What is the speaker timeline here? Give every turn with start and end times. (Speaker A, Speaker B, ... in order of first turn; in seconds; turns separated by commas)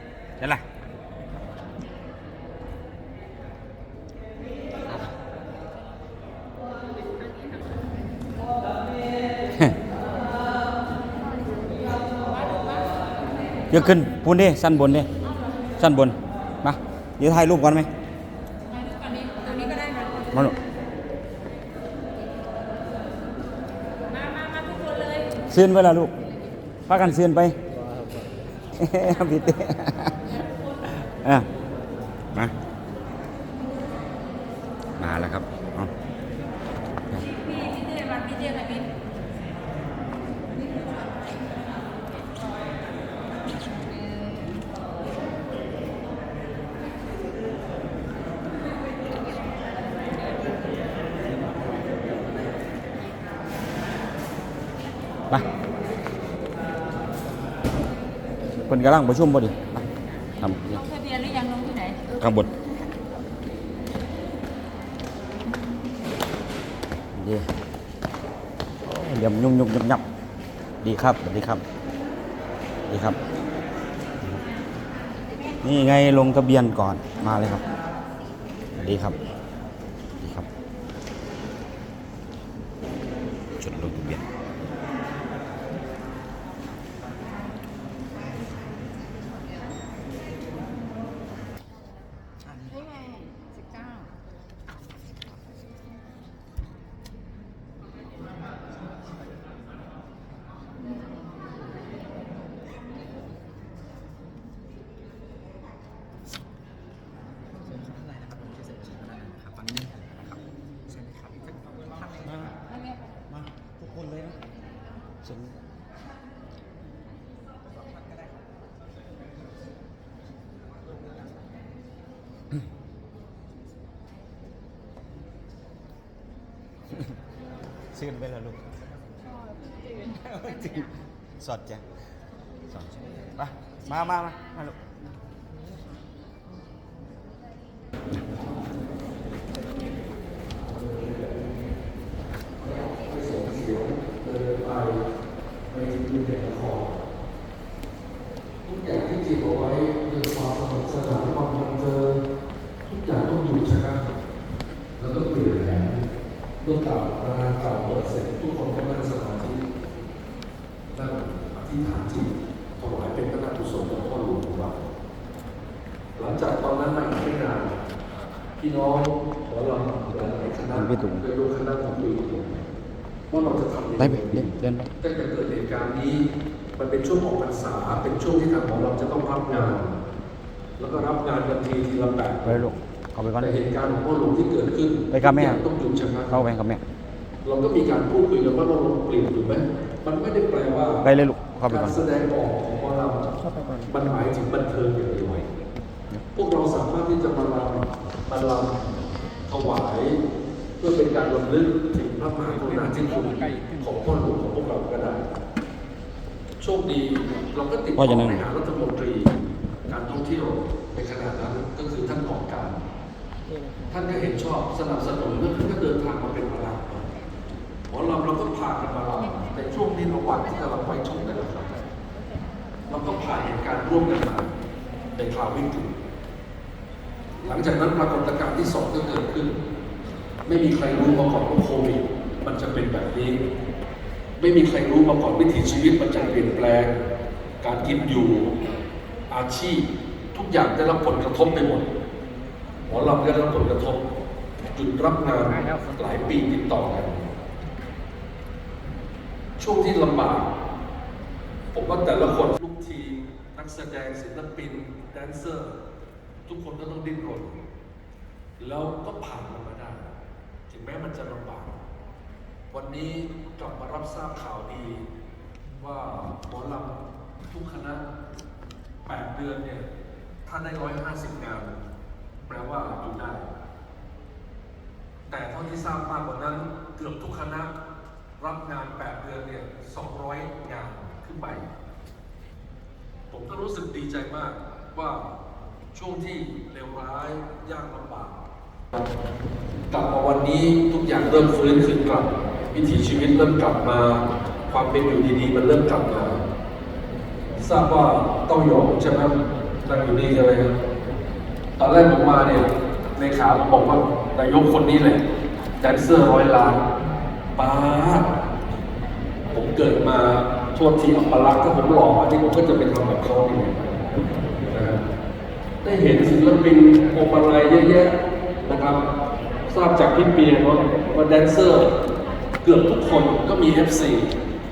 Speaker A: 13.7-15.1, Speaker A: 15.8-17.9, Speaker B: 18.9-20.2, Speaker B: 24.3-25.2, Speaker A: 25.5-26.1, Speaker A: 26.9-27.6, Speaker A: 28.8-30.2, Speaker A: 31.0-31.5, Speaker A: 35.0-35.9, Speaker B: 37.5-38.8, Speaker A: 58.7-59.9, Speaker A: 60.4-60.8, Speaker B: 61.0-62.1, Speaker A: 62.2-62.5, Speaker A: 67.1-67.5, Speaker A: 68.8-70.0, Speaker A: 70.8-71.6, Speaker A: 72.9-73.2, Speaker A: 75.6-77.6, Speaker A: 78.8-79.2, Speaker A: 80.2-80.5, Speaker A: 83.6-84.2, Speaker A: 112.2-112.5, Speaker A: 113.3-114.4, Speaker A: 115.2-115.5, Speaker A: 127.9-128.6, Speaker A: 130.1-130.9, Speaker A: 131.4-131.8, Speaker A: 132.7-134.7, Speaker C: 140.6-141.5, Speaker C: 142.6-145.0, Speaker C: 145.7-146.9, Speaker C: 148.6-152.2, Speaker C: 152.8-154.1, Speaker C: 155.0-156.0, Speaker C: 156.6-159.6, Speaker C: 160.9-164.8, Speaker C: 166.2-167.8, Speaker C: 168.6-172.6, Speaker A: 170.7-171.2, Speaker C: 173.3-179.9, Speaker A: 174.0-174.9, Speaker C: 180.8-182.6, Speaker A: 182.4-183.5, Speaker C: 183.4-186.4, Speaker A: 185.1-185.6, Speaker A: 186.3-186.8, Speaker C: 187.4-191.1, Speaker A: 191.0-192.0, Speaker C: 191.7-193.3, Speaker C: 193.9-195.5, Speaker C: 196.3-198.8, Speaker C: 199.5-200.2, Speaker C: 200.8-205.3, Speaker C: 206.6-209.3, Speaker A: 208.0-208.4, Speaker C: 209.9-212.8, Speaker C: 213.9-217.1, Speaker C: 217.9-221.8, Speaker C: 222.9-224.5, Speaker C: 225.2-225.9, Speaker C: 227.4-229.6, Speaker C: 230.4-233.4, Speaker C: 234.4-237.0, Speaker C: 237.6-238.6, Speaker C: 239.3-241.9, Speaker C: 242.9-244.1, Speaker C: 244.7-247.3, Speaker C: 249.6-250.5, Speaker C: 251.7-255.7, Speaker C: 256.4-257.6, Speaker C: 258.6-260.1, Speaker C: 260.7-261.8, Speaker C: 262.7-265.1, Speaker C: 265.8-268.1, Speaker C: 269.1-269.9, Speaker C: 270.4-271.8, Speaker C: 272.4-273.5, Speaker C: 275.3-277.7, Speaker C: 278.4-281.7, Speaker C: 283.3-285.4, Speaker C: 285.9-288.4, Speaker C: 289.9-296.4, Speaker C: 297.6-300.8, Speaker C: 301.8-305.2, Speaker C: 305.8-306.8, Speaker C: 307.6-308.4, Speaker C: 309.5-313.8, Speaker C: 314.6-315.0, Speaker C: 315.8-319.0, Speaker C: 319.7-321.9, Speaker C: 322.6-324.3